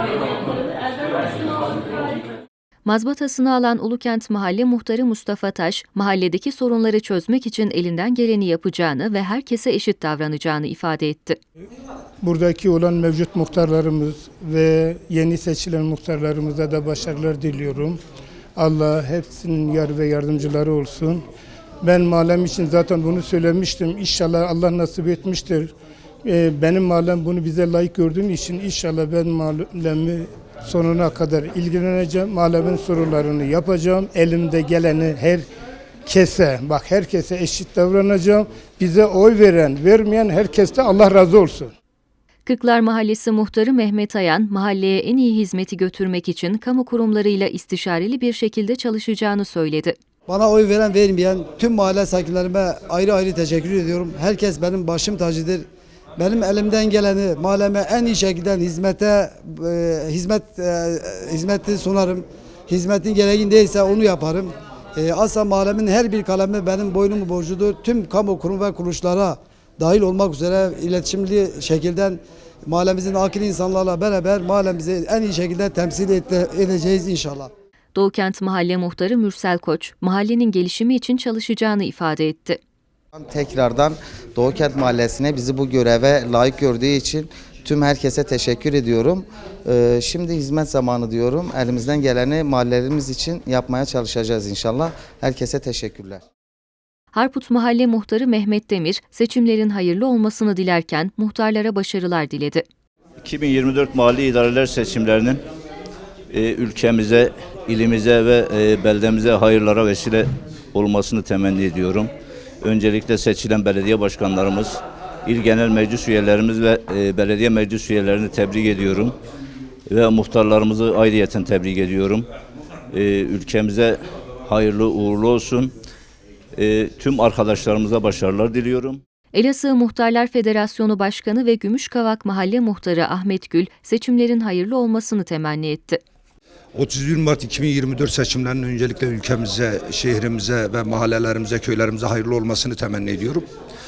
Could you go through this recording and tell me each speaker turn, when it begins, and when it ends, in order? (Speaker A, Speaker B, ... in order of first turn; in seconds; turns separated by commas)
Speaker A: 2.9-11.4, Speaker B: 12.2-18.0, Speaker B: 18.6-21.2, Speaker B: 21.8-25.7, Speaker B: 26.2-35.5, Speaker B: 36.1-41.7, Speaker A: 42.5-50.0, Speaker C: 50.3-55.6, Speaker C: 56.2-77.5, Speaker A: 77.9-82.6, Speaker D: 83.2-96.2, Speaker A: 97.1-102.7, Speaker E: 103.2-105.4, Speaker E: 106.3-112.1, Speaker E: 112.6-119.2, Speaker E: 119.9-122.3, Speaker E: 122.9-125.7, Speaker E: 126.6-129.0, Speaker A: 129.3-136.0, Speaker F: 136.7-143.4